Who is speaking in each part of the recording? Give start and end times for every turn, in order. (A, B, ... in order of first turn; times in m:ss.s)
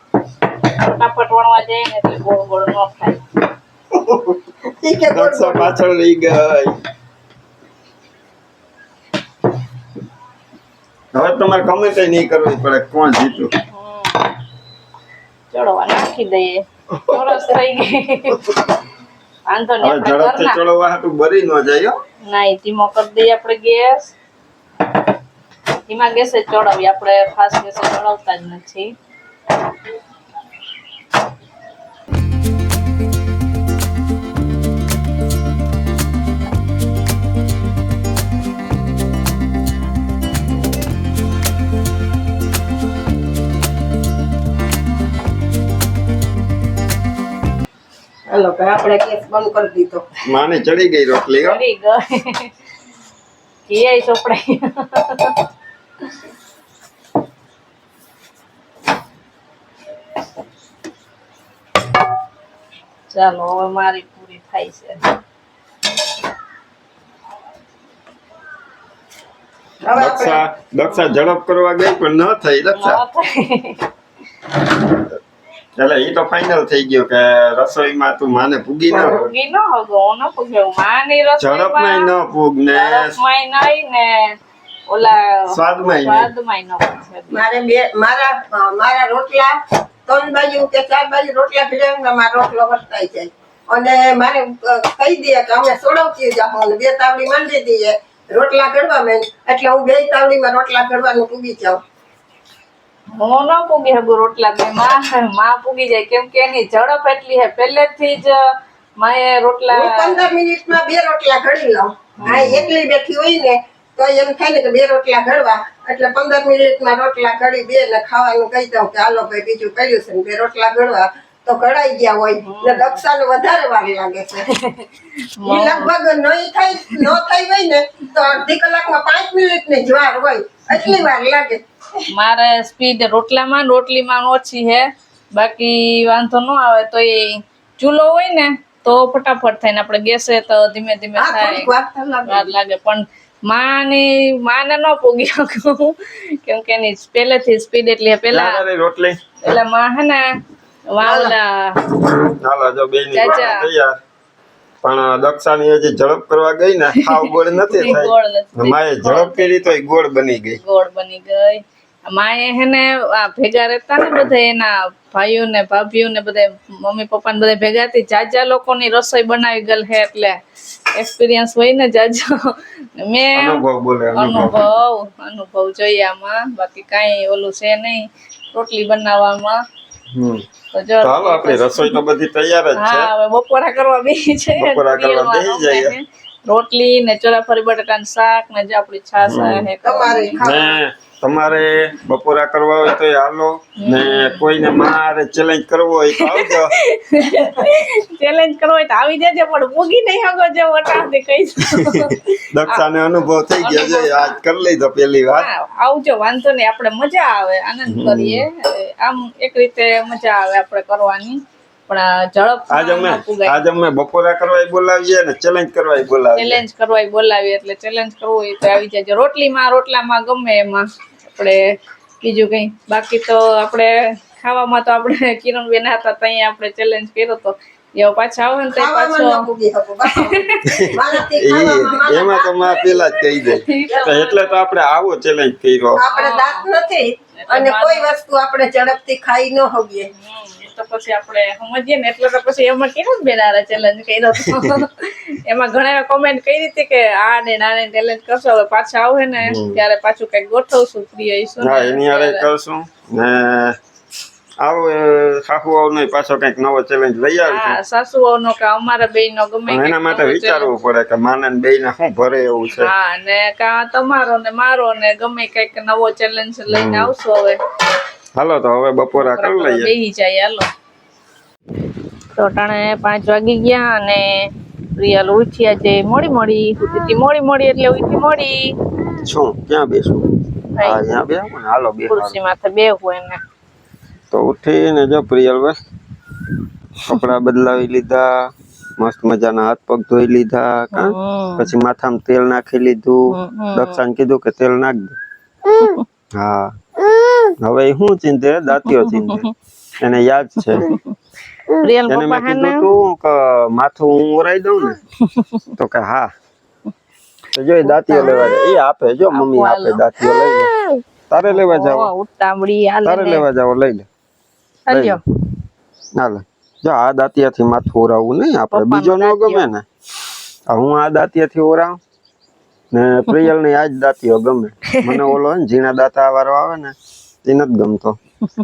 0:00.6-0:03.2 A
0:04.1-0:04.3 B
0:04.7-0:05.7 C
0:05.1-0:06.8 B
0:11.1-0:13.5 B
0:13.7-0:14.3 A
0:15.5-0:18.6 A
0:19.5-0:20.6 A
0:19.8-0:22.0 B
0:22.2-0:24.1 A
0:25.8-0:28.9 A
0:48.3-0:50.1 C
0:50.3-0:51.6 B
0:51.4-0:52.5 A
0:53.7-0:55.4 A
1:03.1-1:05.2 A
1:09.8-1:10.4 C
1:10.0-1:13.0 B
1:12.7-1:13.9 A
1:15.8-1:19.3 B
1:18.9-1:22.1 A
1:21.4-1:23.2 B
1:22.7-1:24.4 A
1:24.9-1:27.4 A
1:25.5-1:26.3 B
1:27.3-1:41.8 C
1:43.1-1:48.4 A
1:49.0-1:50.3 A
1:49.7-2:04.5 C
1:52.2-1:52.5 A
1:52.2-1:52.7 B
2:02.4-2:03.0 A
2:04.5-2:05.9 A
2:05.4-2:11.6 C
2:12.1-2:21.7 A
2:21.2-2:22.5 C
2:22.2-2:28.6 A
2:28.3-2:29.2 B
2:29.4-2:30.3 A
2:30.9-2:31.9 A
2:31.0-2:31.3 C
2:32.2-2:34.0 B
2:33.1-2:33.6 A
2:34.8-2:40.6 B
2:37.0-2:39.6 A
2:40.6-2:50.4 A
2:50.9-2:53.6 A
2:53.3-2:54.6 B
2:54.1-2:59.6 A
3:00.1-3:00.4 B
3:00.7-3:02.0 A
3:01.0-3:03.1 B
3:02.7-3:10.4 A
3:04.6-3:05.9 B
3:09.2-3:09.7 B
3:09.8-3:10.8 C
3:10.4-3:16.7 B
3:13.8-3:14.5 A
3:16.2-3:22.8 A
3:21.7-3:25.5 B
3:23.5-3:24.4 A
3:25.3-3:33.6 A
3:27.8-3:28.4 B
3:32.7-3:36.6 B
3:36.3-3:49.4 A
3:48.7-3:52.9 C
3:50.0-3:51.1 A
3:50.6-3:56.0 B
3:53.3-3:54.5 A
3:56.0-4:00.1 C
3:56.0-3:56.7 A
3:57.4-3:58.1 A
4:00.2-4:12.5 A
4:04.3-4:04.8 B
4:09.4-4:09.8 B
4:11.6-4:13.8 B
4:14.6-4:17.8 B
4:17.4-4:20.7 A
4:19.7-4:22.9 B
4:22.7-4:27.6 A
4:26.7-4:27.1 B
4:28.4-4:29.9 B
4:29.2-4:30.7 A
4:32.3-4:38.7 A
4:39.2-4:42.4 B
4:42.1-4:43.4 A
4:44.3-4:45.8 B
4:47.0-4:55.2 B
4:50.9-4:51.7 A
4:53.3-4:54.0 A
4:55.7-4:56.0 A
4:56.3-4:56.8 B
4:57.6-4:59.4 B
4:58.8-4:59.5 A
5:00.0-5:00.9 B
5:00.7-5:01.1 A
5:01.7-5:02.9 A
5:02.1-5:05.0 B
5:05.3-5:05.6 A
5:05.8-5:06.3 B
5:07.5-5:10.7 B
5:07.8-5:08.5 A
5:09.3-5:10.0 A
5:11.3-5:12.1 B
5:11.5-5:13.4 A
5:13.0-5:14.0 B
5:14.9-5:15.2 A
5:14.9-5:15.2 B
5:16.1-5:19.8 B
5:18.7-5:19.6 A
5:20.7-5:22.0 B
5:22.9-5:28.2 B